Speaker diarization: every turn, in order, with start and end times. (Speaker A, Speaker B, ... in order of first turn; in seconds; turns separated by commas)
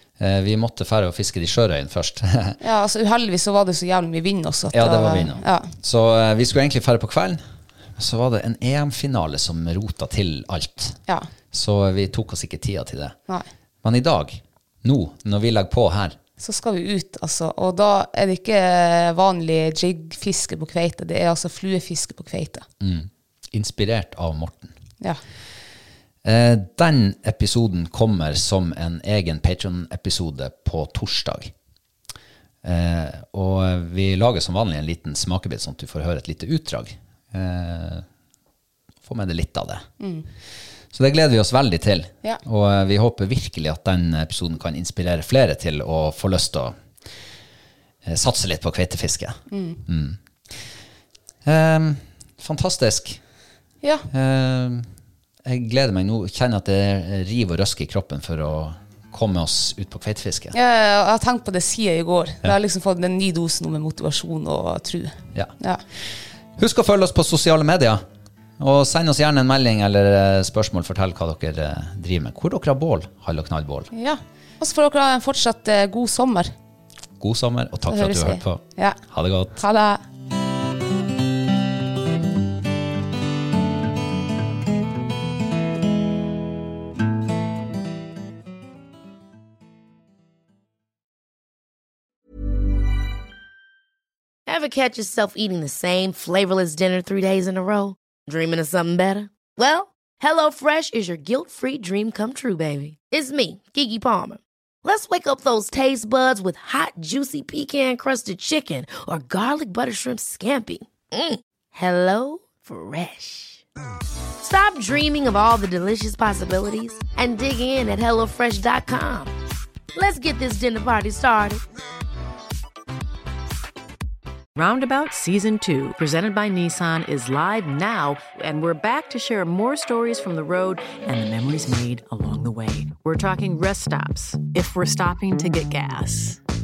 Speaker A: 0.2-2.6, Speaker B: 2.6-5.7, Speaker A: 4.7-7.4, Speaker A: 8.0-11.0, Speaker A: 11.5-13.2, Speaker A: 13.8-16.2, Speaker B: 16.4-22.6, Speaker A: 22.8-24.7, Speaker A: 26.2-31.5, Speaker A: 32.6-38.0, Speaker A: 39.0-39.9, Speaker B: 40.0-40.3, Speaker A: 40.9-46.8, Speaker A: 48.0-50.6, Speaker B: 49.5-49.8, Speaker A: 51.4-53.2, Speaker B: 53.8-54.1, Speaker A: 54.1-54.9, Speaker A: 55.4-60.5, Speaker B: 60.5-65.8, Speaker A: 66.5-68.0, Speaker A: 68.6-73.9, Speaker B: 73.9-76.5, Speaker A: 77.2-79.6, Speaker B: 77.9-79.0, Speaker B: 79.5-80.0, Speaker C: 94.5-113.6, Speaker C: 114.4-119.3, Speaker C: 119.9-121.6, Speaker D: 124.5-136.4